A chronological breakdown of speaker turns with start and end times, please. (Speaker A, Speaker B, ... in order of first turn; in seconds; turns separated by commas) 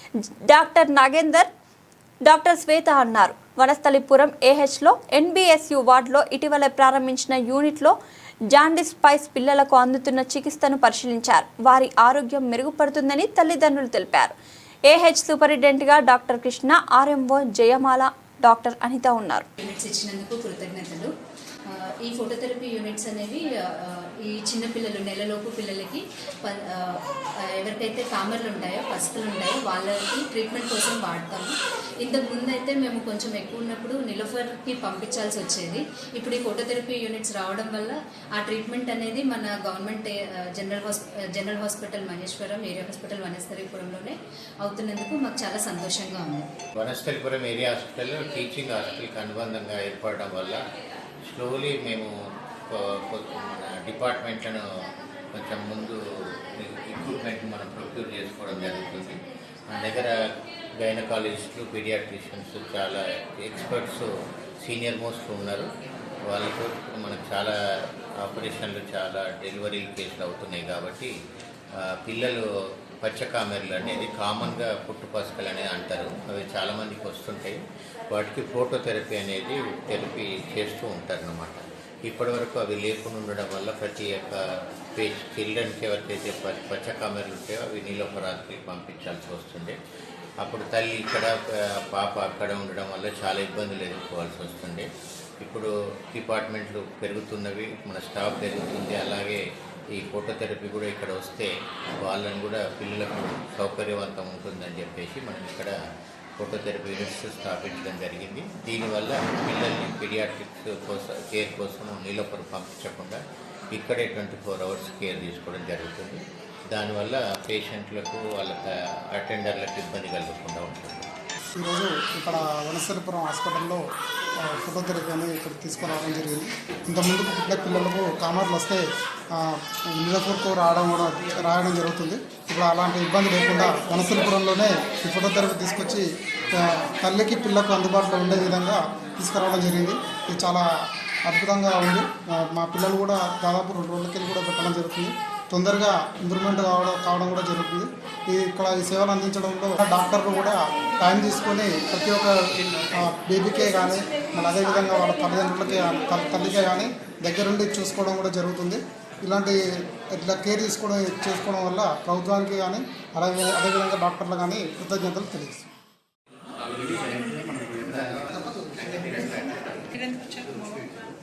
Speaker A: 0.5-1.5, Speaker A: 2.2-7.9, Speaker A: 8.5-14.3, Speaker A: 14.9-19.5, Speaker B: 19.6-21.1, Speaker B: 21.7-27.0, Speaker B: 27.6-46.4, Speaker C: 46.8-50.6, Speaker C: 51.3-52.1, Speaker C: 52.7-54.6, Speaker C: 55.3-60.1, Speaker C: 60.8-64.1, Speaker C: 64.6-65.7, Speaker C: 66.3-67.5, Speaker C: 68.2-71.1, Speaker C: 71.8-72.4, Speaker C: 73.0-84.4, Speaker C: 84.9-89.8, Speaker C: 90.4-94.9, Speaker C: 95.4-99.4, Speaker C: 99.9-105.7, Speaker C: 106.4-113.2, Speaker C: 113.7-121.1, Speaker D: 121.6-123.8, Speaker D: 124.4-128.8, Speaker D: 129.3-140.6, Speaker D: 141.2-159.6, Speaker D: 160.1-165.7, Speaker C: 166.9-168.1, Speaker D: 168.3-168.9, Speaker C: 168.8-169.8